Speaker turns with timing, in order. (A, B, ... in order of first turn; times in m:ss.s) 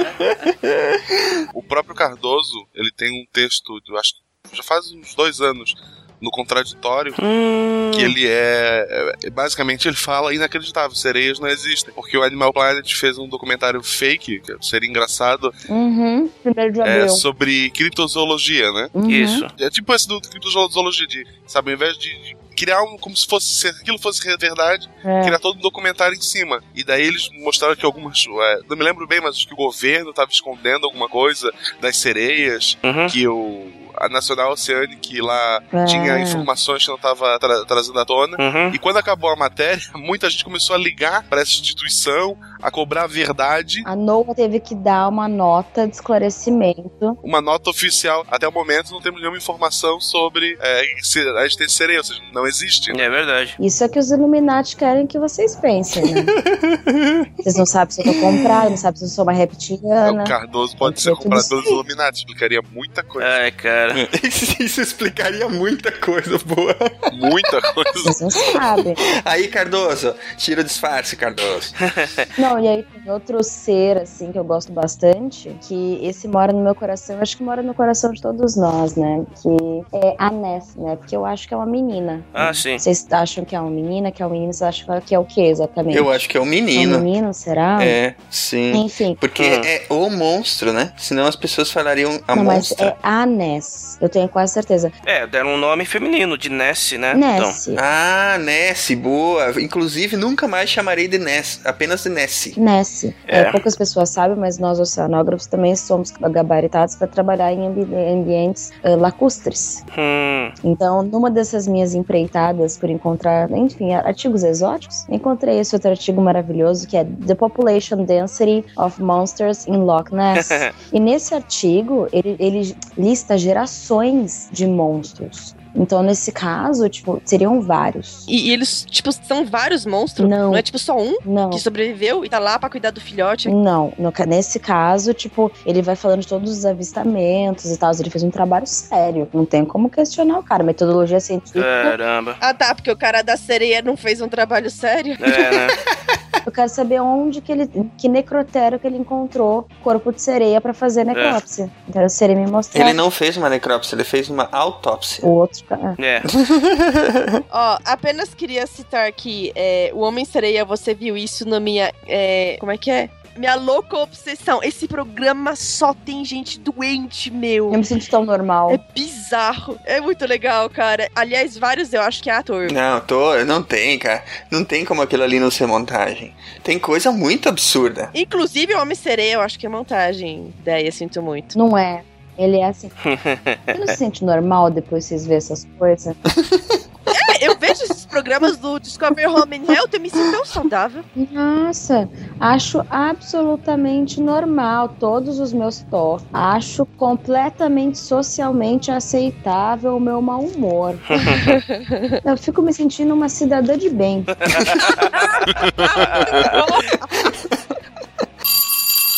0:00.2-0:01.4 A
0:01.5-0:07.2 B
0:07.2-0:08.1 C
0:07.9-0:15.5 B
0:15.7-0:17.2 D
0:16.8-0:18.9 B
0:18.9-0:19.4 D
0:19.0-0:19.5 C
0:19.6-0:43.8 B
0:25.0-0:25.4 D
0:32.8-0:33.1 C
0:35.7-0:36.5 D
0:38.4-0:38.8 C
0:43.8-0:47.2 D
0:47.2-0:53.0 B
0:52.9-0:53.6 C
0:53.6-0:56.3 D
0:56.0-0:57.3 A
0:57.4-1:01.8 D
0:58.2-0:58.6 A
1:00.0-1:03.4 B
1:03.2-1:04.0 C
1:03.9-1:07.6 A
1:07.1-1:08.1 B
1:08.0-1:09.0 D
1:09.2-1:11.8 A
1:12.4-1:26.2 D
1:22.3-1:22.8 C
1:25.9-1:27.1 A
1:26.7-1:28.0 D
1:27.8-1:32.9 A
1:28.7-1:29.2 D
1:29.4-1:29.7 C
1:32.3-1:34.9 D
1:35.0-1:37.6 C
1:37.1-1:37.8 D
1:37.7-1:42.6 A
1:42.6-1:49.8 D
1:43.3-1:43.6 C
1:49.9-1:50.5 C
1:50.6-2:08.3 D
2:00.4-2:00.7 C
2:08.3-2:13.5 E
2:10.2-2:10.6 D
2:11.2-2:11.6 D
2:13.4-2:21.9 D
2:21.6-2:22.4 C
2:22.4-2:25.6 E
2:25.2-2:25.8 C
2:26.4-2:33.0 D
2:31.1-2:31.4 C
2:32.7-2:35.3 A
2:35.2-2:36.0 D
2:36.0-2:36.3 C
2:36.3-2:37.4 A
2:37.5-2:47.8 E
2:47.7-2:48.8 D
2:48.7-2:52.7 E
2:52.6-2:58.1 A
2:58.1-3:01.5 E
3:01.5-3:02.9 D
3:03.0-3:03.9 C
3:03.7-3:06.2 D
3:06.3-3:06.8 A
3:07.1-3:11.0 E
3:11.2-3:21.0 D
3:21.1-3:21.6 C
3:21.4-3:22.1 E
3:22.2-3:24.3 D
3:24.4-3:25.2 C
3:25.1-3:27.1 E
3:26.0-3:26.5 C
3:27.3-3:27.5 A